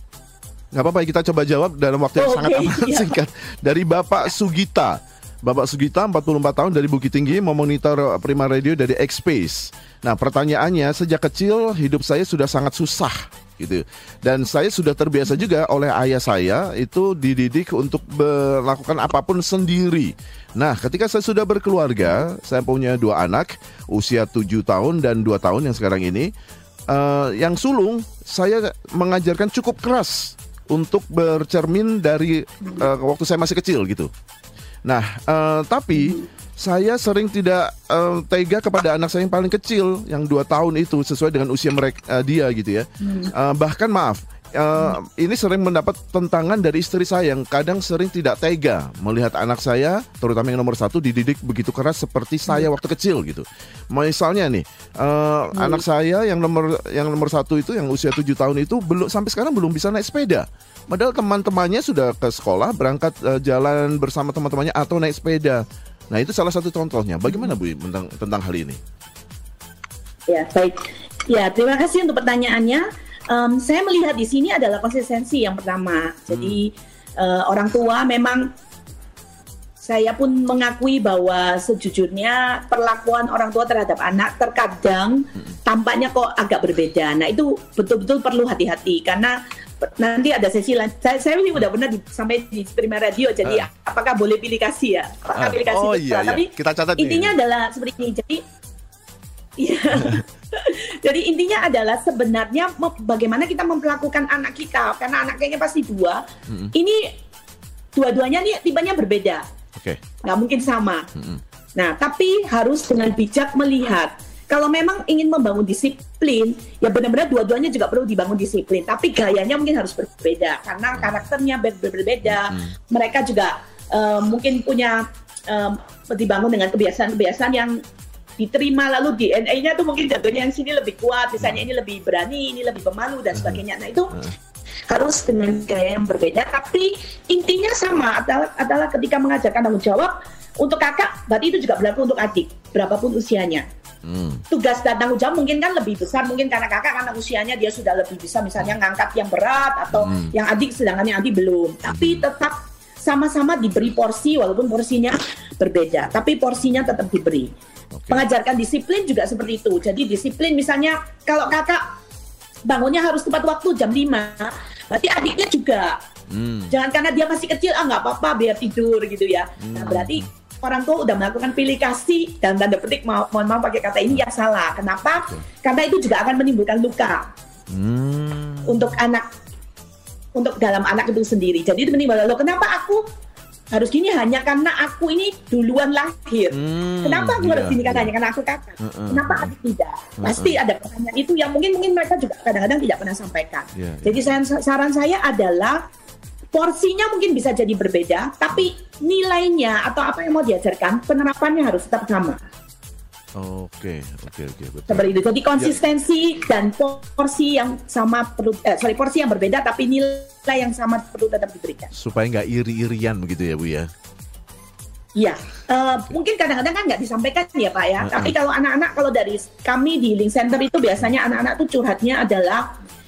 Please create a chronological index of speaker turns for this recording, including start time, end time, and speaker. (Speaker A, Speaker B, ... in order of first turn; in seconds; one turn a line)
Speaker A: 0.7-26.3
Speaker B: 2.2-3.2
Speaker A: 26.9-34.1
Speaker A: 34.9-68.8
Speaker B: 43.0-43.3
Speaker B: 55.5-55.8
Speaker B: 70.3-78.5
Speaker A: 76.3-76.6
Speaker B: 79.8-98.4
Speaker A: 95.3-97.3
Speaker B: 99.6-106.2
Speaker A: 100.0-100.2
Speaker A: 106.5-106.7
Speaker B: 106.7-107.0
Speaker B: 107.9-109.4
Speaker A: 109.8-110.0
Speaker B: 110.2-111.1
Speaker A: 111.2-111.4
Speaker B: 111.8-127.8
Speaker A: 121.0-121.2
Speaker A: 122.2-122.7
Speaker B: 128.4-134.2
Speaker A: 131.4-131.6
Speaker A: 133.3-133.6
Speaker B: 134.9-143.7
Speaker A: 144.0-144.4
Speaker B: 144.5-157.5
Speaker A: 149.9-150.3
Speaker A: 151.9-152.2
Speaker A: 157.9-158.2
Speaker B: 158.1-161.9
Speaker B: 162.7-166.0
Speaker A: 166.3-166.8
Speaker B: 166.7-177.2
Speaker A: 169.6-170.3
Speaker A: 177.7-178.9
Speaker B: 178.7-179.2
Speaker B: 180.3-183.0
Speaker B: 183.7-195.8
Speaker A: 186.5-188.1
Speaker A: 188.8-189.5
Speaker A: 190.2-190.6
Speaker A: 193.7-194.3
Speaker B: 196.5-202.4
Speaker A: 203.3-205.8
Speaker B: 204.9-211.9
Speaker A: 211.9-213.9
Speaker B: 215.2-222.7
Speaker A: 218.0-218.3